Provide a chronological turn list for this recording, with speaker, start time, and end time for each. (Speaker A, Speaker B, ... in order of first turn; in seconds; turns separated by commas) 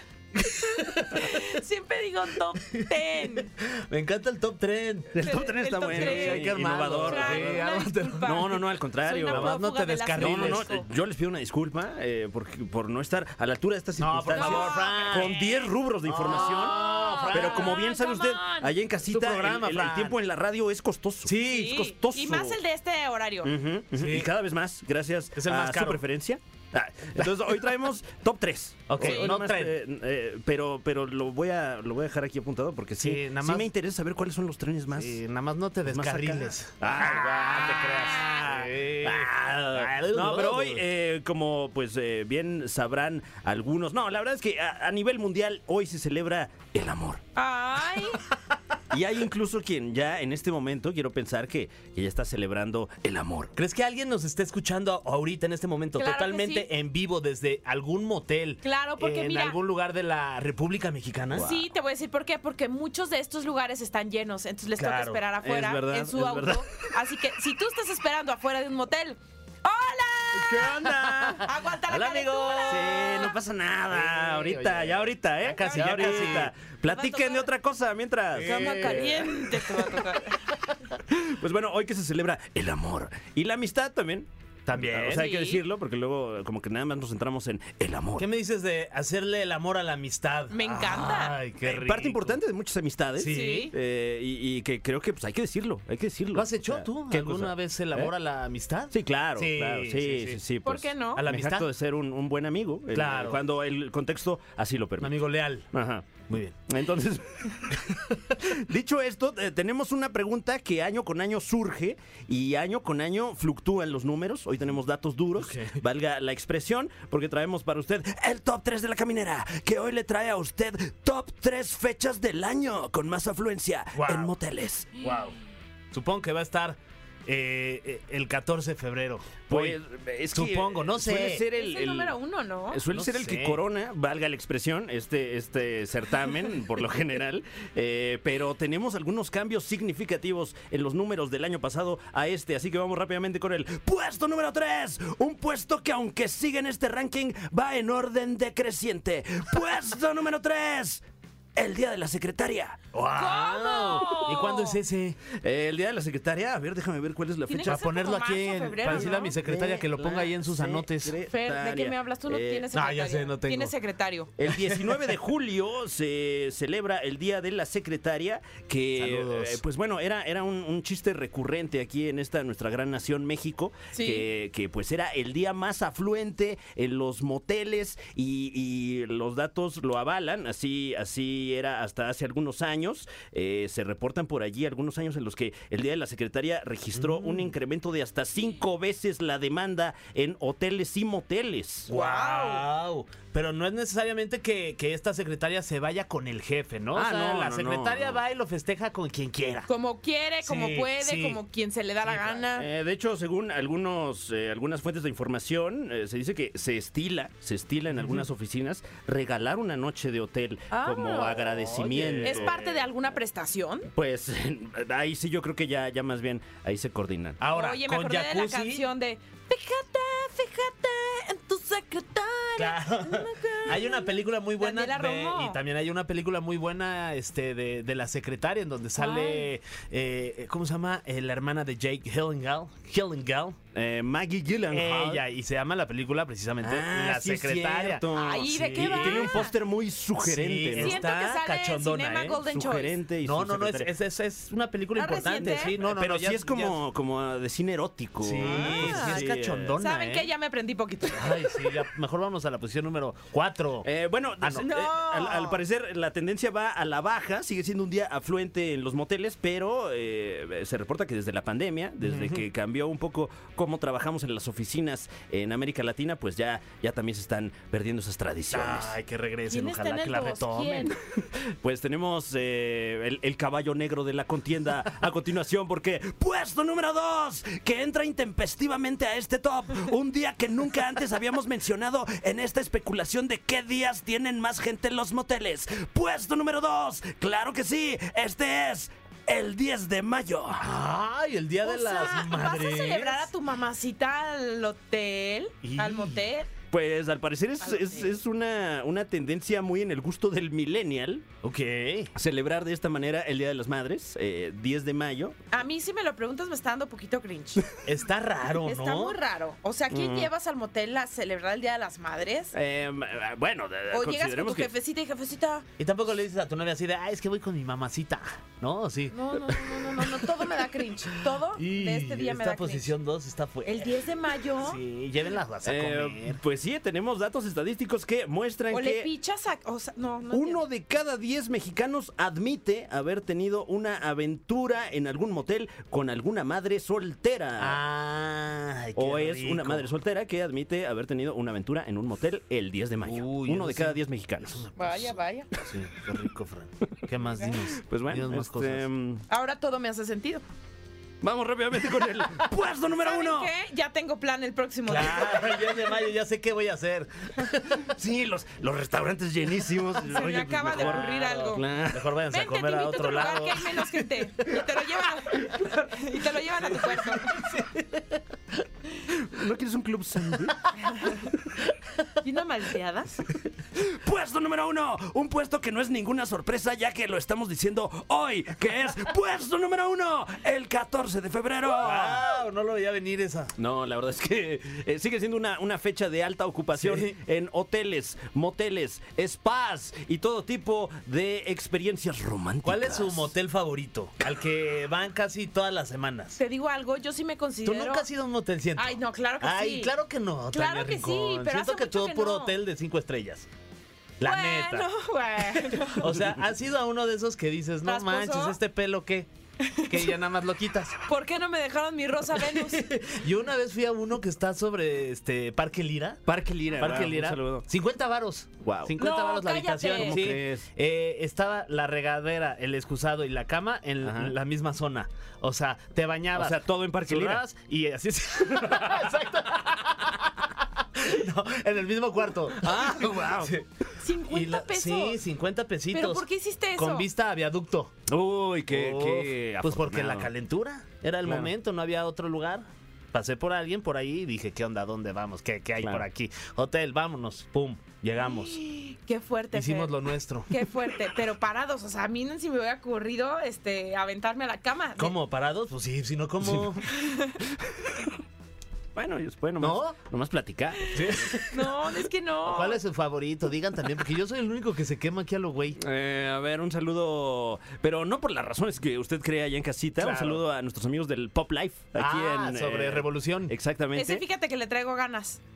Speaker A: 0.4-1.4, Speaker B: 1.1-3.5, Speaker A: 3.7-5.2, Speaker C: 5.1-7.6, Speaker B: 5.2-10.9, Speaker A: 5.8-8.4, Speaker C: 8.2-9.6, Speaker A: 9.3-10.7, Speaker C: 10.1-22.6, Speaker A: 14.0-15.4, Speaker B: 14.3-15.7, Speaker A: 16.1-17.8, Speaker B: 16.3-18.7, Speaker A: 19.1-20.2, Speaker A: 21.2-21.8, Speaker B: 21.5-23.5, Speaker C: 23.4-35.2, Speaker A: 23.9-24.3, Speaker A: 25.4-26.0, Speaker A: 28.9-29.7, Speaker B: 29.0-29.3, Speaker A: 33.0-33.7, Speaker A: 34.9-40.8, Speaker C: 35.9-47.2, Speaker B: 47.4-48.2, Speaker C: 48.9-53.5, Speaker A: 53.5-61.6, Speaker B: 56.0-56.7, Speaker B: 58.6-59.6, Speaker B: 61.3-70.7, Speaker A: 64.8-65.2, Speaker C: 65.4-66.6, Speaker A: 70.5-72.9, Speaker C: 70.5-71.4, Speaker B: 71.4-73.3, Speaker C: 72.5-79.0, Speaker A: 73.9-76.5, Speaker B: 75.6-77.5, Speaker A: 78.3-80.0, Speaker B: 78.4-80.4, Speaker C: 81.1-88.3, Speaker A: 84.7-85.3, Speaker B: 85.1-85.6, Speaker A: 88.2-92.4, Speaker B: 90.5-91.4, Speaker C: 91.6-98.1, Speaker A: 93.2-93.7, Speaker B: 93.3-93.7, Speaker A: 96.3-100.4, Speaker C: 98.9-125.0, Speaker B: 100.6-101.2, Speaker A: 101.1-101.7, Speaker A: 102.9-103.4, Speaker A: 105.0-105.7, Speaker A: 106.3-106.6, Speaker A: 115.4-115.8, Speaker A: 123.9-124.3, Speaker A: 125.0-125.4, Speaker A: 125.9-129.8, Speaker C: 129.5-132.2, Speaker A: 130.3-131.5, Speaker B: 131.5-132.8, Speaker C: 132.7-151.0, Speaker A: 132.9-133.6, Speaker C: 151.6-152.9, Speaker A: 152.9-155.2, Speaker B: 153.1-154.8, Speaker C: 155.3-157.9, Speaker B: 157.5-159.4, Speaker A: 157.6-161.2, Speaker C: 158.8-162.7, Speaker B: 161.3-164.3, Speaker A: 162.7-163.8, Speaker C: 164.4-191.9, Speaker A: 164.4-165.1, Speaker A: 169.0-169.6, Speaker B: 173.9-174.2, Speaker A: 186.9-187.5, Speaker A: 191.9-199.7, Speaker B: 191.9-192.7, Speaker C: 196.9-198.2, Speaker B: 199.7-202.7, Speaker A: 200.4-201.4, Speaker A: 202.1-202.4, Speaker C: 202.6-212.8, Speaker A: 207.9-208.2, Speaker B: 210.7-211.4, Speaker A: 211.3-212.6, Speaker B: 212.2-213.9, Speaker C: 213.9-217.4, Speaker A: 217.4-218.9, Speaker B: 217.5-225.6, Speaker A: 222.6-233.6, Speaker B: 229.0-229.5, Speaker C: 233.7-235.2, Speaker A: 234.7-239.5, Speaker C: 236.6-241.0, Speaker B: 238.1-239.5, Speaker A: 240.2-242.4, Speaker B: 240.8-243.0, Speaker C: 242.4-243.9, Speaker A: 243.2-246.8, Speaker B: 244.9-245.8, Speaker C: 245.4-249.8, Speaker A: 248.2-250.3, Speaker B: 248.4-251.7, Speaker A: 251.1-253.9, Speaker C: 253.8-269.0, Speaker A: 254.4-254.7, Speaker B: 254.6-255.6, Speaker A: 262.0-262.5, Speaker A: 268.5-270.9, Speaker B: 269.5-271.0, Speaker C: 271.6-290.7, Speaker A: 290.6-293.3, Speaker B: 291.6-296.5, Speaker A: 295.6-296.2, Speaker C: 296.7-301.3, Speaker B: 297.6-298.1, Speaker A: 301.4-302.1, Speaker C: 302.1-305.4, Speaker B: 305.5-307.7, Speaker A: 307.8-309.2, Speaker B: 308.6-312.5, Speaker C: 309.9-310.3, Speaker C: 312.5-314.7, Speaker B: 313.9-315.6, Speaker A: 315.8-319.2, Speaker B: 319.1-322.9, Speaker A: 321.3-324.0, Speaker B: 323.6-324.8, Speaker A: 324.6-326.4, Speaker C: 325.6-329.1, Speaker B: 328.7-330.6, Speaker C: 330.3-337.8, Speaker A: 337.6-339.9, Speaker C: 339.0-344.7, Speaker A: 343.0-348.9, Speaker B: 344.8-345.5, Speaker C: 347.8-349.2, Speaker B: 349.3-350.4, Speaker C: 351.2-353.5, Speaker B: 353.0-355.6, Speaker A: 354.9-357.9, Speaker C: 357.8-362.1, Speaker B: 360.1-361.6, Speaker A: 360.7-361.3, Speaker A: 361.9-364.0, Speaker B: 362.3-367.5, Speaker A: 366.8-368.2, Speaker C: 369.1-370.7, Speaker B: 370.9-371.2, Speaker B: 372.2-373.2, Speaker C: 373.8-382.3, Speaker A: 381.8-383.5, Speaker C: 383.6-393.3, Speaker A: 386.7-387.1, Speaker A: 392.6-396.4, Speaker B: 396.4-398.1, Speaker A: 397.6-403.5, Speaker B: 398.8-399.9, Speaker B: 400.5-402.6, Speaker A: 404.2-404.9, Speaker B: 404.2-406.2, Speaker A: 405.8-411.0, Speaker B: 407.9-408.6, Speaker B: 409.6-410.1, Speaker B: 411.1-412.9, Speaker A: 412.4-433.7, Speaker C: 416.3-417.6, Speaker C: 418.6-418.9, Speaker B: 419.0-420.2, Speaker C: 419.9-420.7, Speaker C: 424.0-424.3, Speaker C: 426.4-427.4, Speaker C: 432.6-433.6, Speaker B: 434.0-435.2, Speaker A: 434.3-438.0, Speaker B: 435.9-437.1, Speaker C: 438.1-440.3, Speaker A: 438.7-448.6, Speaker C: 441.2-441.5, Speaker B: 448.2-449.9, Speaker A: 449.5-450.5, Speaker B: 450.5-455.1, Speaker A: 455.0-456.9, Speaker B: 456.9-457.3, Speaker C: 458.9-461.3, Speaker A: 459.6-460.0, Speaker A: 460.9-461.7, Speaker B: 461.0-462.8, Speaker A: 462.4-465.8, Speaker C: 465.8-474.2, Speaker A: 470.0-470.4, Speaker A: 472.0-473.5, Speaker B: 473.9-475.4